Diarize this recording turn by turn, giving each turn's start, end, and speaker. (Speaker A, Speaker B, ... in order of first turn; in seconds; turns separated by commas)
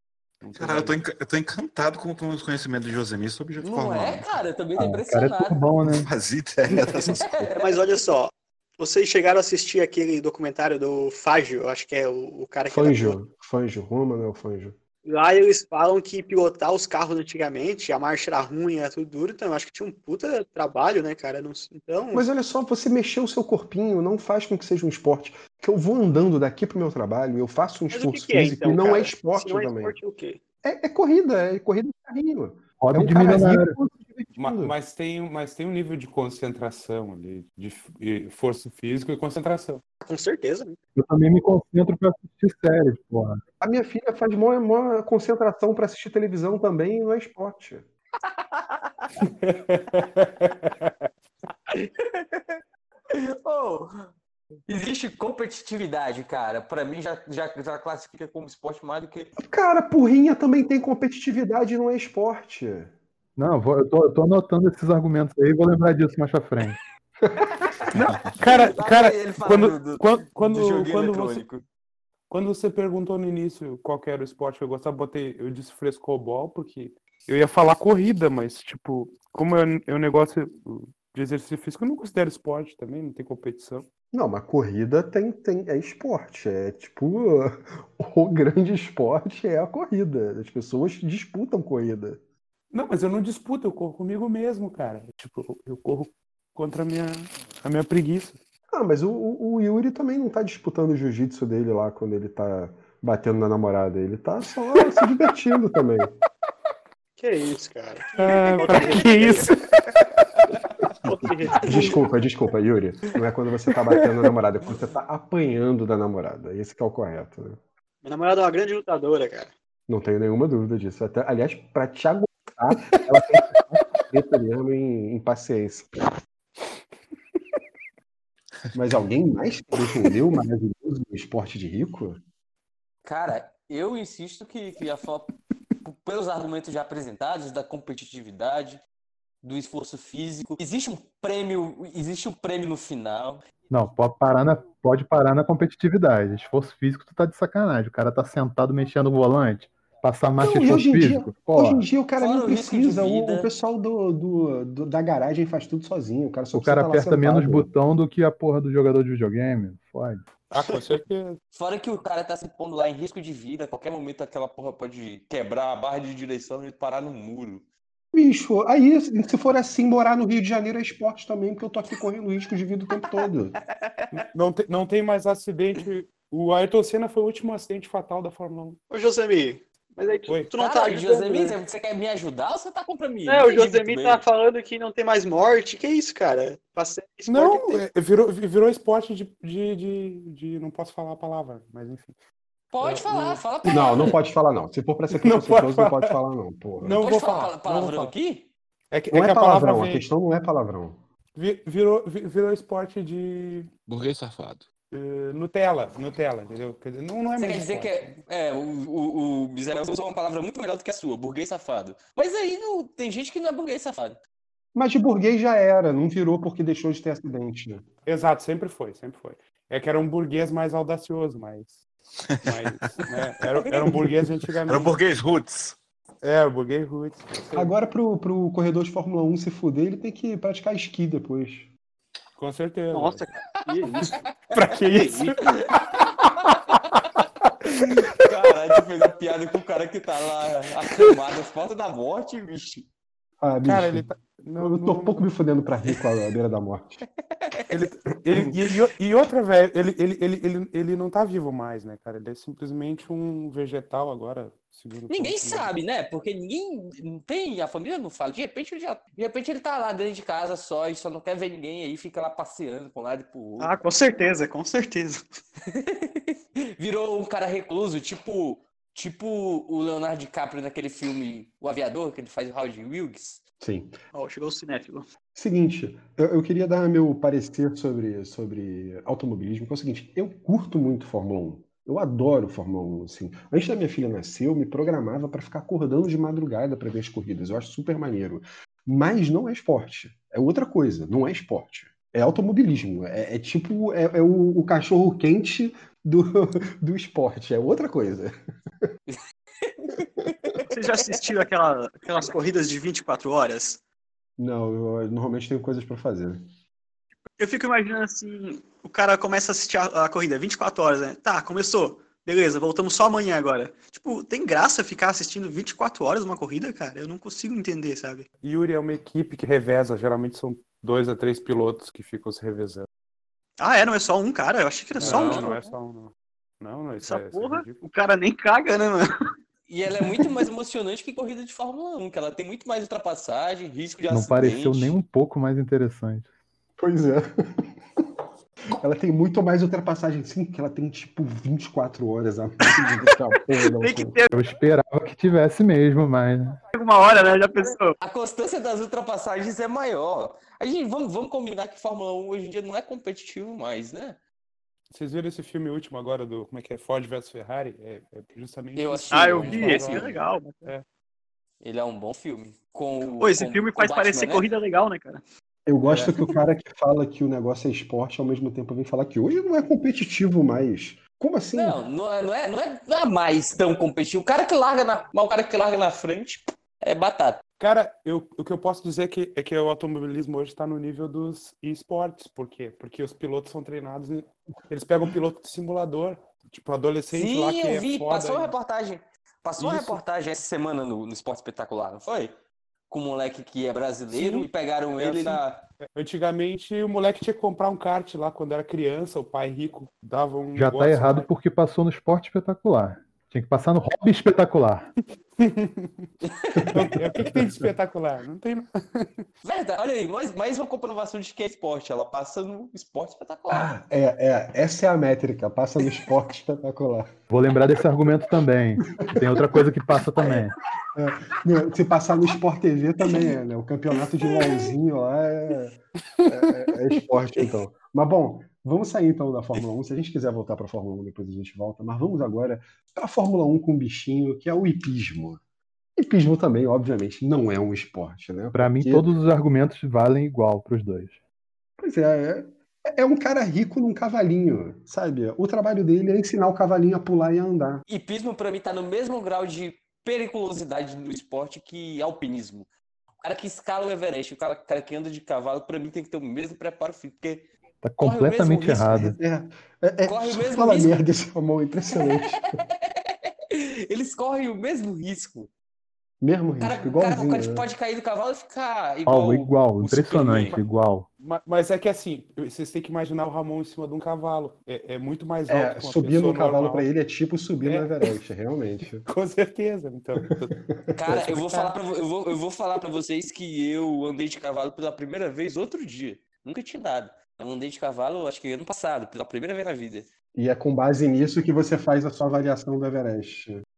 Speaker A: 0.4-1.0, Speaker B: 0.6-4.4, Speaker C: 3.6-5.6, Speaker D: 4.8-6.1, Speaker B: 5.8-7.5, Speaker C: 7.1-7.8, Speaker E: 7.5-13.2, Speaker F: 12.7-14.8, Speaker E: 15.1-22.2, Speaker F: 22.1-29.9, Speaker E: 27.9-30.4, Speaker F: 30.6-34.8, Speaker D: 32.8-33.8, Speaker A: 34.4-39.8, Speaker E: 40.0-40.8, Speaker D: 41.0-43.4, Speaker F: 43.6-47.9, Speaker C: 48.3-49.1, Speaker A: 49.2-50.9, Speaker C: 51.7-52.6, Speaker C: 53.1-54.1, Speaker C: 54.7-59.3, Speaker F: 59.4-62.9, Speaker D: 63.4-66.8, Speaker C: 67.8-71.6, Speaker A: 67.9-71.5, Speaker A: 72.3-83.9, Speaker F: 84.1-92.2, Speaker A: 92.7-98.4, Speaker F: 98.7-106.2, Speaker E: 107.2-109.5, Speaker A: 108.2-110.0, Speaker E: 111.0-111.9, Speaker F: 111.1-117.6, Speaker E: 118.0-119.5, Speaker F: 119.9-125.9, Speaker F: 128.7-132.2, Speaker C: 133.1-138.8, Speaker C: 139.4-143.4, Speaker D: 143.7-151.9, Speaker F: 150.3-157.7, Speaker C: 152.2-153.5, Speaker D: 156.5-160.2, Speaker A: 160.5-161.4, Speaker E: 160.5-160.9, Speaker C: 161.5-167.7, Speaker F: 168.1-173.6, Speaker C: 173.1-174.2, Speaker A: 174.1-178.8, Speaker E: 178.9-181.6, Speaker A: 180.3-180.5, Speaker C: 180.6-184.2, Speaker E: 183.3-187.8, Speaker A: 187.3-192.2, Speaker C: 192.7-194.2, Speaker A: 192.8-194.1, Speaker F: 193.7-197.0, Speaker A: 195.1-196.2, Speaker A: 196.8-198.2, Speaker C: 197.0-198.5, Speaker A: 198.9-200.1, Speaker F: 199.1-201.0, Speaker A: 201.3-203.7, Speaker B: 203.9-204.7, Speaker A: 204.9-208.2, Speaker C: 207.4-214.2, Speaker F: 214.8-217.8, Speaker A: 218.1-221.8, Speaker B: 222.3-222.6, Speaker A: 222.4-225.0, Speaker B: 224.7-225.8, Speaker A: 226.2-227.8, Speaker F: 227.5-231.7, Speaker A: 232.4-233.3, Speaker E: 232.9-234.1, Speaker A: 233.8-237.2, Speaker E: 234.8-235.4, Speaker C: 237.8-242.9, Speaker F: 243.4-244.1, Speaker A: 243.6-245.3, Speaker F: 244.6-247.1, Speaker C: 247.4-247.7, Speaker A: 247.7-255.7, Speaker C: 255.1-263.7, Speaker E: 263.6-265.3, Speaker C: 265.7-273.4, Speaker F: 273.6-273.9, Speaker E: 274.1-275.1, Speaker F: 275.4-298.3, Speaker C: 299.1-301.2, Speaker E: 300.7-303.8, Speaker F: 304.4-306.4, Speaker E: 307.4-318.3, Speaker A: 318.4-322.9, Speaker E: 323.6-325.7, Speaker A: 324.9-327.8, Speaker C: 325.0-325.5, Speaker E: 327.0-329.1, Speaker C: 329.7-334.9, Speaker D: 334.1-336.3, Speaker F: 336.8-337.7, Speaker F: 338.8-344.2, Speaker E: 343.8-344.4, Speaker D: 344.3-346.6, Speaker E: 346.7-348.0, Speaker C: 348.0-354.2, Speaker A: 354.9-360.9, Speaker C: 358.8-360.1, Speaker E: 359.1-360.7, Speaker C: 361.6-364.5, Speaker E: 363.2-365.2, Speaker F: 365.7-371.8, Speaker A: 365.9-366.1, Speaker C: 371.5-377.4, Speaker A: 377.6-388.6, Speaker C: 387.1-392.4, Speaker A: 389.6-390.0, Speaker C: 392.9-395.7, Speaker A: 394.1-395.4, Speaker A: 395.9-401.3, Speaker D: 400.6-404.9, Speaker A: 405.4-406.1, Speaker C: 406.2-406.7, Speaker A: 406.7-409.2, Speaker C: 409.4-413.7, Speaker F: 413.5-417.1, Speaker D: 417.3-420.6, Speaker F: 419.0-419.6, Speaker F: 420.9-435.4, Speaker F: 436.0-439.1, Speaker D: 438.5-441.2, Speaker F: 441.8-447.8, Speaker C: 447.9-452.7, Speaker C: 453.2-457.5, Speaker D: 457.8-459.2, Speaker C: 458.0-458.9, Speaker F: 458.9-462.6, Speaker C: 460.1-461.0, Speaker C: 462.9-465.5, Speaker F: 466.2-467.7, Speaker C: 466.6-470.6, Speaker D: 469.1-471.1, Speaker A: 471.2-476.9, Speaker F: 475.5-479.1, Speaker A: 477.6-478.1, Speaker A: 479.1-480.6, Speaker F: 480.7-481.2, Speaker C: 481.0-490.1, Speaker A: 481.1-481.8, Speaker F: 490.4-493.6